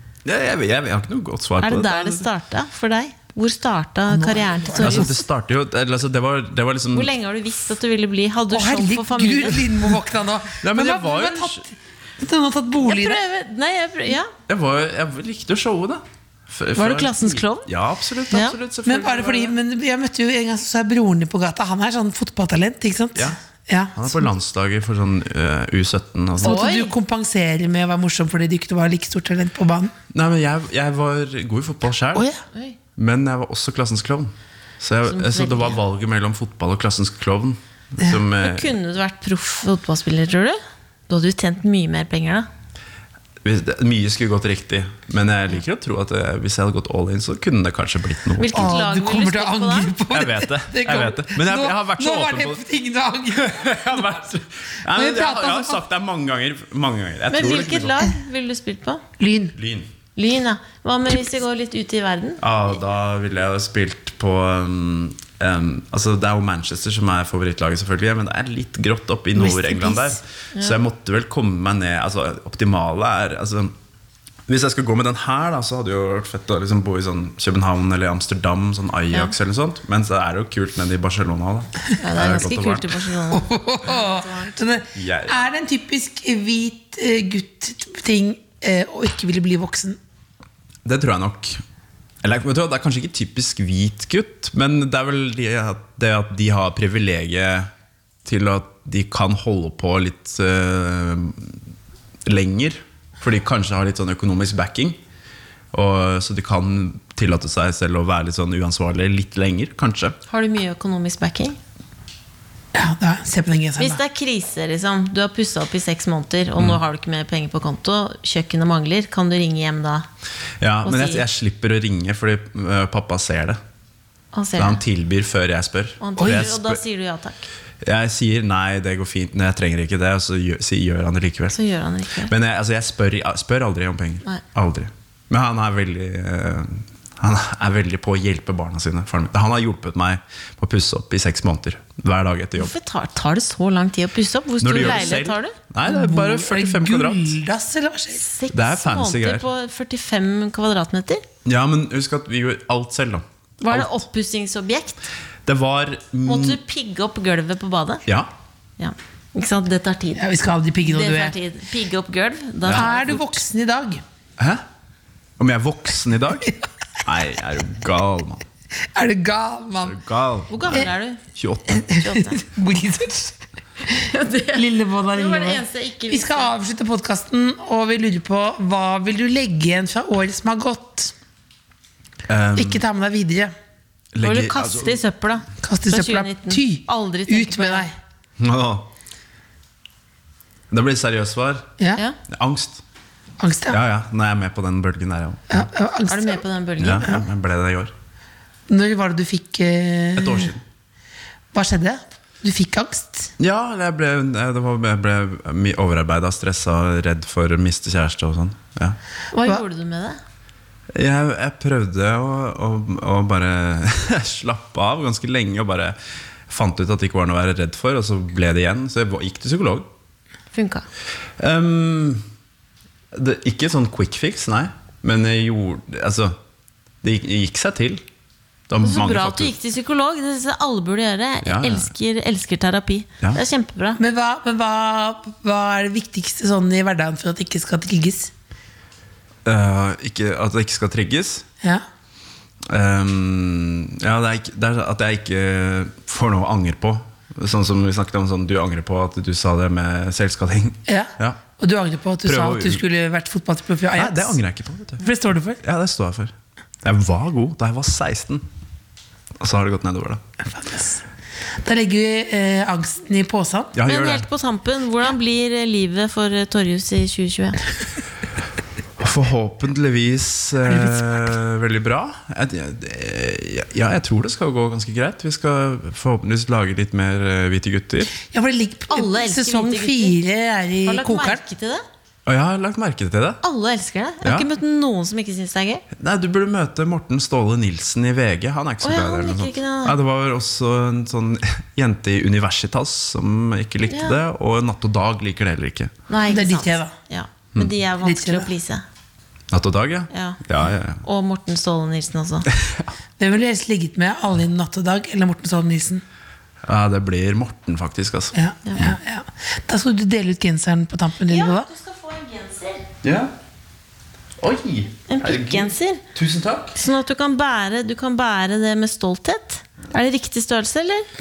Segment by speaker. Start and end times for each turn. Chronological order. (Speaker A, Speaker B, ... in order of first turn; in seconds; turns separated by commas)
Speaker A: 0.2-2.3, Speaker B: 1.6-5.2, Speaker C: 4.1-5.1, Speaker A: 4.7-7.1, Speaker B: 6.9-9.8, Speaker C: 8.5-13.2, Speaker A: 10.6-11.7, Speaker B: 12.8-14.3, Speaker A: 14.5-19.5, Speaker B: 16.7-17.7, Speaker B: 18.3-18.6, Speaker C: 18.8-24.2, Speaker A: 23.9-26.6, Speaker B: 26.4-26.9, Speaker C: 26.4-29.9, Speaker A: 30.1-32.3, Speaker C: 32.1-32.4, Speaker A: 33.0-38.7, Speaker B: 35.0-35.8, Speaker B: 38.4-40.6, Speaker B: 41.1-42.5, Speaker A: 43.4-48.7, Speaker B: 48.4-49.9, Speaker C: 48.5-53.7, Speaker A: 50.1-52.6, Speaker A: 53.3-58.1, Speaker C: 54.9-55.8, Speaker B: 57.3-59.0, Speaker C: 59.2-59.5, Speaker A: 59.5-59.9, Speaker B: 60.1-62.4, Speaker A: 62.4-73.7, Speaker C: 69.3-70.0, Speaker B: 69.7-70.8, Speaker A: 74.5-83.0, Speaker B: 82.0-84.6, Speaker C: 83.3-90.0, Speaker A: 84.9-85.5, Speaker A: 90.8-91.6, Speaker A: 92.2-97.7, Speaker A: 98.2-101.6, Speaker A: 102.2-105.0, Speaker A: 105.7-110.2, Speaker B: 110.3-111.6, Speaker C: 112.7-114.0, Speaker B: 113.8-120.1, Speaker A: 120.6-123.6, Speaker B: 120.8-121.2, Speaker B: 124.3-124.8, Speaker A: 124.6-126.8, Speaker B: 126.0-127.5, Speaker C: 126.2-126.5, Speaker A: 127.8-131.6, Speaker B: 131.5-132.3, Speaker A: 132.3-142.7, Speaker B: 142.6-145.6, Speaker A: 144.6-147.3, Speaker C: 145.8-148.2, Speaker B: 148.1-151.2, Speaker A: 148.5-149.5, Speaker A: 151.4-154.0, Speaker B: 153.6-155.0, Speaker A: 155.4-156.6, Speaker B: 156.2-158.0, Speaker B: 158.8-160.3, Speaker C: 160.2-161.3, Speaker B: 160.8-163.1, Speaker A: 162.6-163.3, Speaker C: 162.7-164.0, Speaker A: 164.4-164.6, Speaker A: 165.4-168.4, Speaker C: 168.9-170.0, Speaker A: 169.8-171.9, Speaker B: 170.5-171.2, Speaker C: 171.7-173.4, Speaker B: 171.9-172.4, Speaker B: 173.9-176.5, Speaker C: 174.5-181.1, Speaker A: 182.3-182.8, Speaker C: 182.6-183.5, Speaker A: 184.1-185.0, Speaker B: 184.2-187.9, Speaker C: 185.6-187.9, Speaker A: 188.4-188.9, Speaker A: 190.7-191.7, Speaker A: 192.3-192.8, Speaker C: 193.4-193.8, Speaker A: 193.7-195.7, Speaker C: 195.5-196.4, Speaker B: 196.1-197.1, Speaker A: 196.8-197.9, Speaker C: 198.7-200.5, Speaker A: 200.2-200.6, Speaker C: 201.5-203.3, Speaker A: 203.4-209.0, Speaker B: 209.3-210.2, Speaker A: 210.9-215.9, Speaker A: 216.5-219.9, Speaker B: 220.5-220.8, Speaker A: 221.4-222.2, Speaker A: 223.1-226.3, Speaker A: 227.0-228.0, Speaker A: 228.7-229.5, Speaker B: 228.8-234.0, Speaker A: 231.4-231.9, Speaker C: 233.9-238.3, Speaker A: 239.4-241.4, Speaker A: 242.7-251.4, Speaker C: 250.9-254.4, Speaker A: 252.2-252.8, Speaker A: 253.9-255.1, Speaker C: 255.0-255.6, Speaker A: 255.6-258.4, Speaker A: 259.4-260.2, Speaker C: 260.4-261.0, Speaker C: 261.6-263.7, Speaker A: 263.8-264.2, Speaker B: 263.9-267.6, Speaker A: 269.0-278.1, Speaker C: 270.7-271.1, Speaker C: 278.1-281.4, Speaker B: 278.9-280.2, Speaker B: 280.8-281.8, Speaker A: 282.2-283.4, Speaker B: 283.4-285.8, Speaker A: 284.2-284.5, Speaker A: 285.9-295.9, Speaker B: 288.8-289.9, Speaker B: 293.9-294.2, Speaker B: 296.1-298.8, Speaker C: 296.3-296.9, Speaker C: 298.0-298.5, Speaker A: 299.5-301.0, Speaker B: 300.1-300.4, Speaker B: 301.0-302.5, Speaker A: 302.5-302.9, Speaker C: 303.2-306.0, Speaker A: 306.6-308.9, Speaker C: 308.3-311.7, Speaker B: 311.3-312.8, Speaker A: 313.0-313.3, Speaker A: 314.4-316.8, Speaker B: 315.1-316.0, Speaker B: 316.8-321.1